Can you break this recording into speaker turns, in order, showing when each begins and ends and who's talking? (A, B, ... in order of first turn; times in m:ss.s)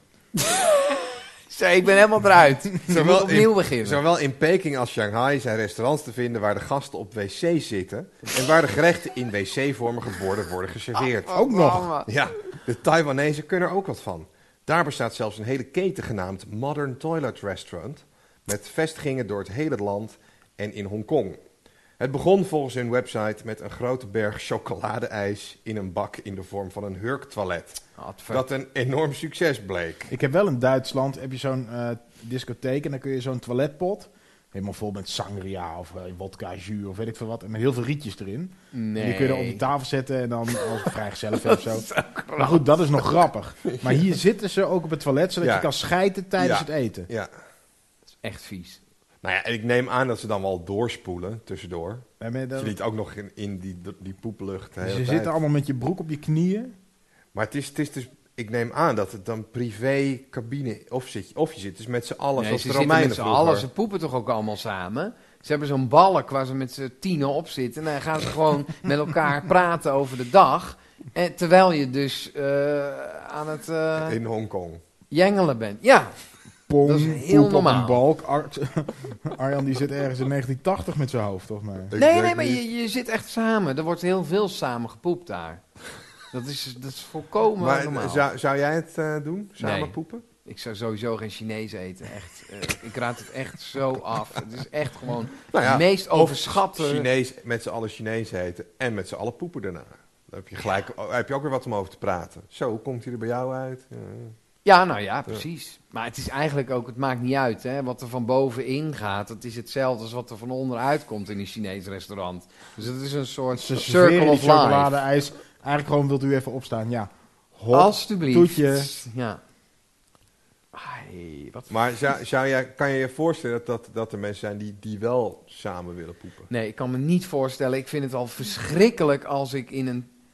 0:00.4-0:04.0 A
0:02.8-0:11.4 B
0:11.0-0:12.1 A
0:11.3-0:11.9 C
0:12.0-0:21.4 B
0:22.0-0:30.1 B
0:28.0-0:28.4 A
0:30.1-0:41.8 C
0:38.7-0:39.6 A
0:41.4-0:43.2 A
0:42.4-0:47.1 C
0:43.7-0:44.0 B
0:45.4-0:45.7 B
0:46.4-0:47.3 B
0:48.2-0:48.8 A
0:49.2-0:55.3 B
0:52.2-0:52.8 C
0:54.8-0:56.7 C
0:57.3-1:03.6 B
1:02.4-1:14.2 A
1:14.0-1:14.8 B
1:15.1-1:16.2 A
1:16.7-1:21.9 C
1:16.8-1:18.0 A
1:21.9-1:22.6 B
1:21.9-1:25.6 A
1:26.3-1:28.2 A
1:27.6-1:30.2 B
1:29.6-1:37.1 A
1:35.5-1:44.4 B
1:44.6-1:55.0 A
1:53.5-1:58.9 C
1:57.7-1:59.4 A
2:00.7-2:01.7 A
2:01.7-2:06.5 B
2:06.5-2:10.1 A